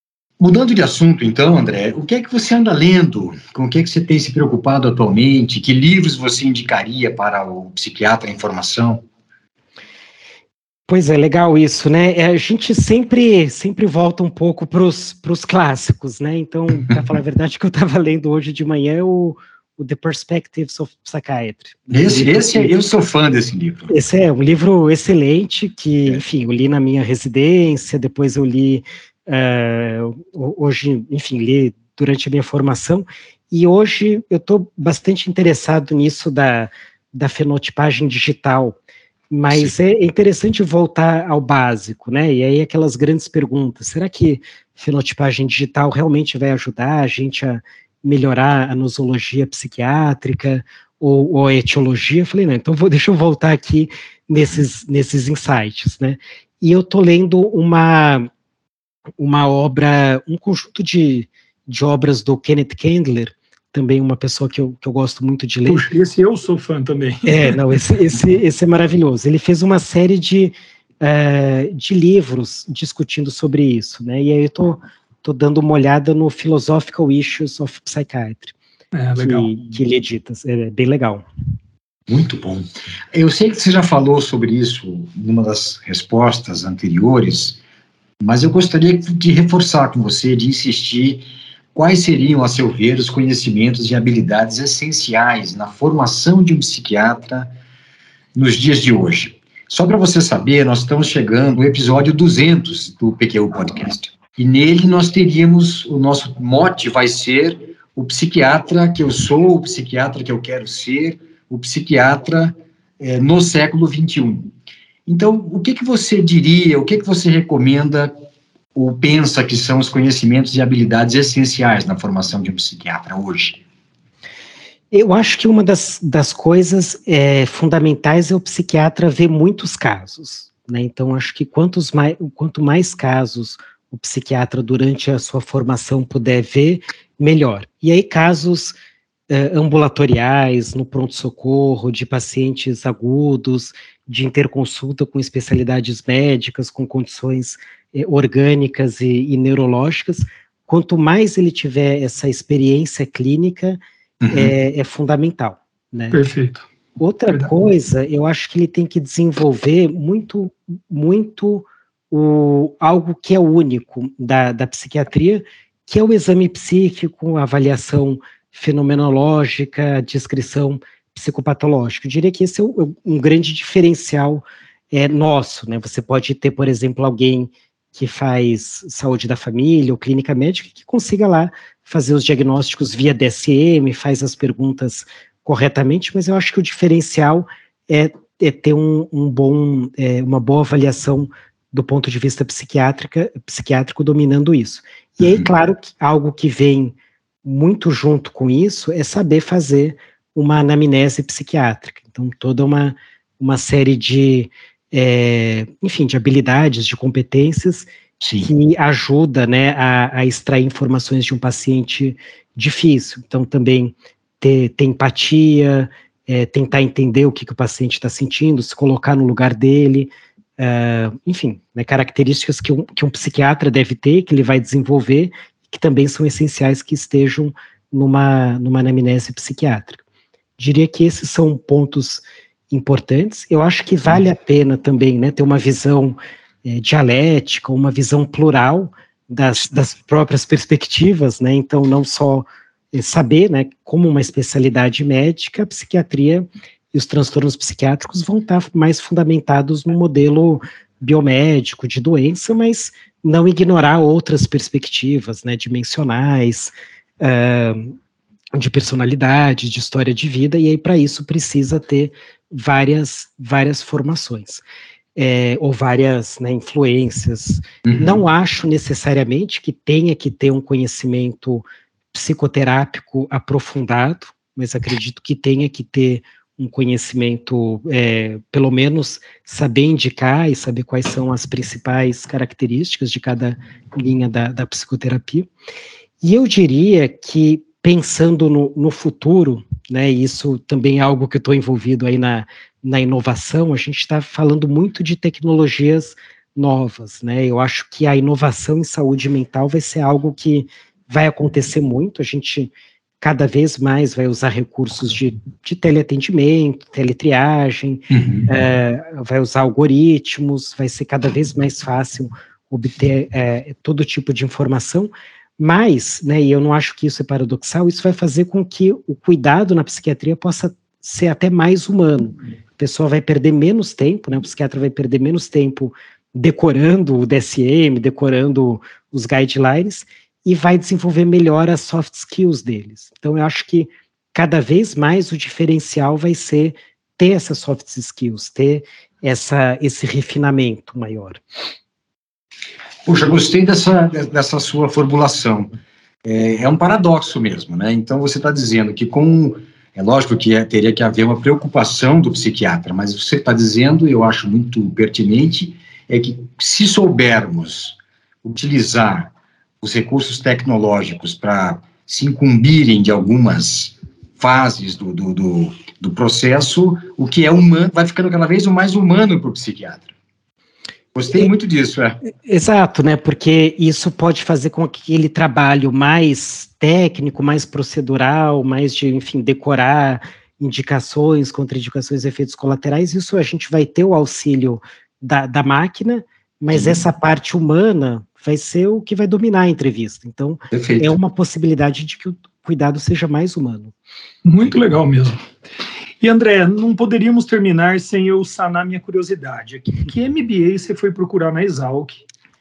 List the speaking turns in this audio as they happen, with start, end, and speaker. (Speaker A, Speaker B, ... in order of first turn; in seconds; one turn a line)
Speaker A: 0.4-9.0
Speaker B: 10.9-22.7
Speaker A: 21.9-23.9
Speaker B: 23.9-38.8
Speaker B: 39.3-58.3
Speaker B: 59.2-65.8
Speaker C: 65.7-67.7
Speaker B: 67.2-78.5
Speaker C: 78.9-79.5
Speaker B: 79.2-81.2
Speaker A: 82.1-87.6
Speaker A: 88.2-97.5
Speaker A: 98.3-114.5
Speaker A: 115.1-118.1
Speaker A: 118.8-123.6
Speaker B: 124.9-138.8
Speaker B: 139.3-153.8
Speaker A: 154.2-154.5
Speaker B: 154.3-156.2
Speaker C: 156.1-156.7
Speaker B: 157.0-207.9
Speaker A: 208.2-208.5
Speaker B: 208.4-230.0
Speaker B: 230.6-258.0
Speaker B: 258.5-264.6
Speaker B: 265.2-285.5
Speaker A: 267.9-268.2
Speaker B: 286.2-341.4
Speaker A: 308.1-308.5
Speaker A: 343.1-345.7
Speaker A: 346.2-370.1
Speaker A: 371.1-372.2
Speaker B: 372.4-393.9
Speaker A: 386.7-387.0
Speaker A: 390.7-391.1
Speaker C: 394.4-395.4
Speaker C: 396.2-402.2